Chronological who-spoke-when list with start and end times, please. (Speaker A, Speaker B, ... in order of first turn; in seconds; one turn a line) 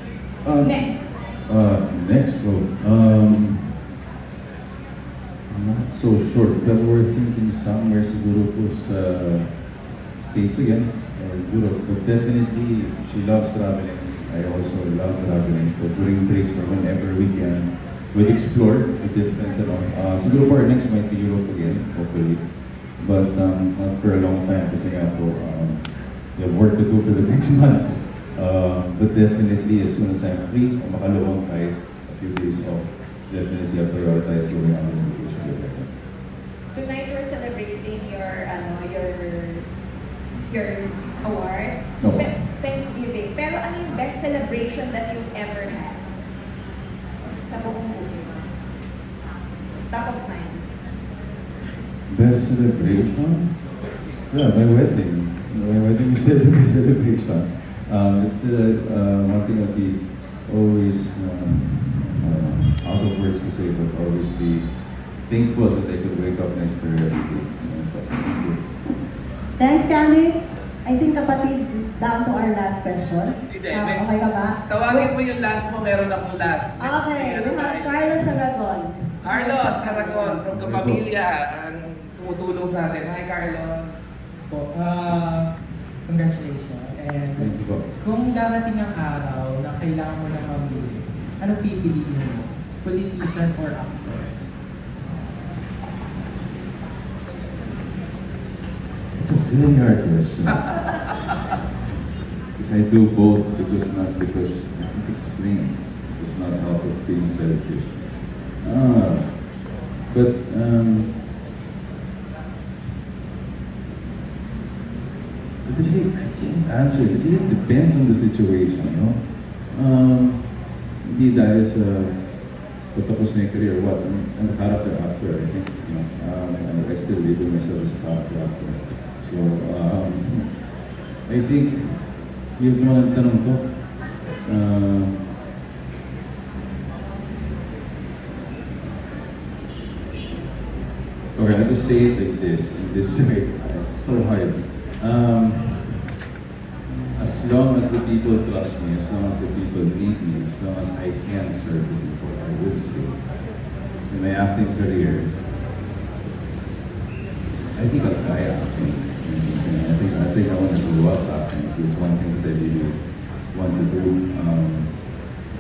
Speaker A: 0.4-3.8
Speaker B: 0.5-1.1
Speaker A: 5.5-36.0
Speaker B: 36.7-39.6
Speaker B: 40.4-46.0
Speaker A: 42.0-42.4
Speaker B: 47.2-48.6
Speaker B: 49.9-50.6
Speaker A: 52.1-53.6
Speaker A: 54.3-68.7
Speaker C: 69.6-75.1
Speaker D: 73.5-74.0
Speaker D: 74.7-78.1
Speaker C: 76.8-80.4
Speaker D: 79.2-84.0
Speaker A: 80.5-81.0
Speaker E: 84.5-94.4
Speaker A: 87.3-87.9
Speaker A: 99.1-101.0
Speaker A: 102.6-111.2
Speaker A: 115.7-130.7
Speaker A: 131.2-135.3
Speaker A: 141.3-145.9
Speaker A: 147.2-155.4
Speaker A: 157.7-165.0